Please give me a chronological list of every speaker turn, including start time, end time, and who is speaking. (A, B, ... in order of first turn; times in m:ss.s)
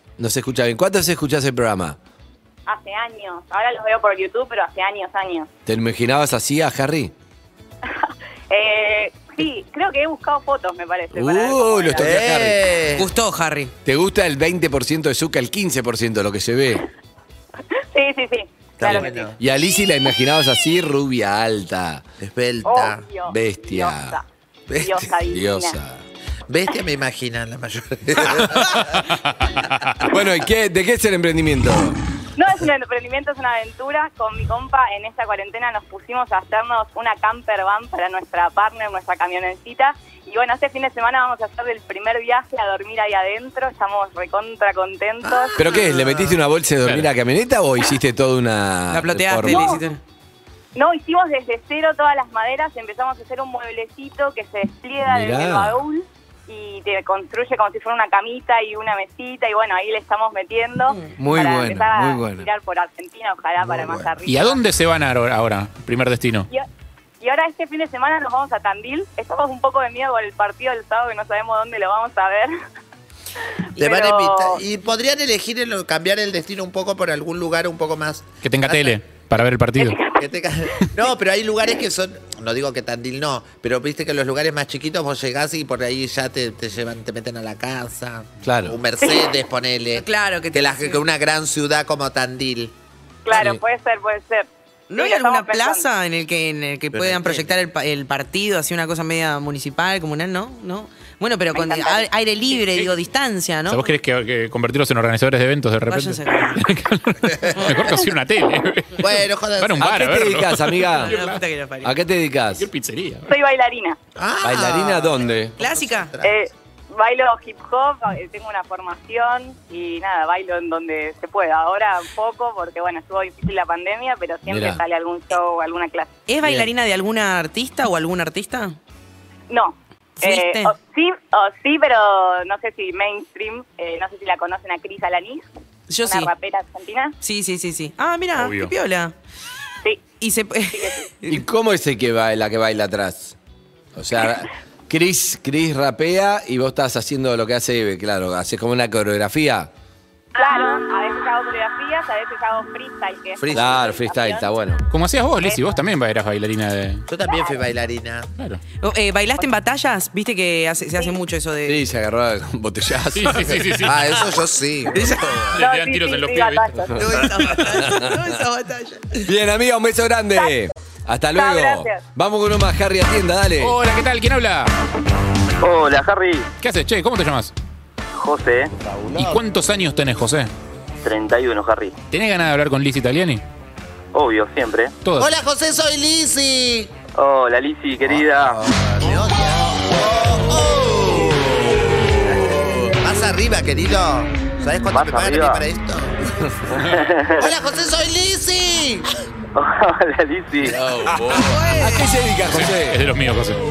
0:00.2-0:02.0 A
0:02.7-0:05.5 B
0:05.6-0:07.1 A
0:08.5-0:12.0 B
0:11.1-0:12.6 A
0:12.0-0:13.1 C
0:12.9-0:13.7 D
0:13.8-0:16.8 A
0:17.9-0:19.2 B
0:18.8-0:19.4 C
0:19.4-0:22.0 A
0:22.2-0:23.0 C
0:22.6-0:24.2 B
0:23.3-0:24.2 A
0:24.7-0:25.1 C
0:24.8-0:25.8 B
0:25.3-0:26.0 A
0:26.5-0:28.8 C
0:28.9-0:30.1 E
0:30.1-0:32.0 A
0:32.4-0:45.8 B
0:45.3-0:46.4 C
0:45.5-0:49.7 A
0:46.8-0:47.1 E
0:48.9-0:50.0 D
0:49.5-0:49.8 B
0:50.7-1:04.6 B
0:55.0-0:55.8 A
1:01.2-1:02.4 A
1:03.6-1:04.1 C
1:04.2-1:06.5 E
1:07.2-1:12.5 B
1:13.7-1:14.6 B
1:13.8-1:19.0 C
1:18.4-1:20.0 E
1:19.8-1:20.2 B
1:20.1-1:32.7 C
1:28.4-1:28.8 A
1:29.9-1:31.0 D
1:33.2-1:35.9 B
1:34.9-1:43.9 D
1:36.9-1:37.5 C
1:41.5-1:42.8 B
1:43.7-1:51.4 E
1:45.9-1:46.6 D
1:47.6-1:48.0 D
1:49.0-1:49.9 C
1:49.8-1:51.2 A
1:50.9-1:52.0 D
1:51.8-1:52.7 A
1:52.6-1:53.3 E
1:53.3-1:54.0 B
1:54.2-1:56.3 C
1:54.4-1:55.5 A
1:55.6-1:56.1 D
1:56.2-2:06.1 B
2:04.5-2:04.8 A
2:06.3-2:08.8 D
2:09.5-2:15.4 B
2:10.2-2:10.7 D
2:15.9-2:16.3 D
2:16.0-2:17.1 B
2:17.2-2:19.1 D
2:18.4-2:18.7 E
2:20.2-2:21.4 D
2:20.7-2:21.0 B
2:21.3-2:23.4 A
2:24.0-2:29.7 A
2:30.3-2:34.5 B
2:33.4-2:33.9 C
2:33.5-2:34.8 A
2:34.9-2:37.0 E
2:35.4-2:35.8 B
2:37.1-2:38.3 C
2:38.8-2:41.8 D
2:41.6-2:43.8 A
2:43.1-2:44.2 E
2:43.8-2:45.0 C
2:45.0-2:45.3 D
2:45.0-2:45.5 A
2:45.5-2:46.8 E
2:45.6-2:47.1 B
2:47.0-2:49.3 D
2:47.7-2:48.3 A
2:49.2-2:53.8 A
2:51.3-2:52.0 B
2:53.6-2:54.7 E
2:55.6-2:56.5 F
2:56.6-2:57.5 E
2:58.1-2:58.7 F
2:59.1-2:59.4 C
2:59.1-3:00.5 E
3:01.0-3:02.0 F
3:02.1-3:03.4 E
3:04.1-3:04.9 F
3:05.0-3:05.3 E
3:05.2-3:06.9 C
3:07.1-3:08.6 F
3:08.0-3:16.2 C
3:11.3-3:13.0 A
3:14.9-3:15.6 F
3:16.8-3:17.5 F
3:17.3-3:19.1 C
3:19.5-3:20.8 F
3:20.7-3:23.0 A
3:21.3-3:22.1 D
3:22.5-3:23.6 E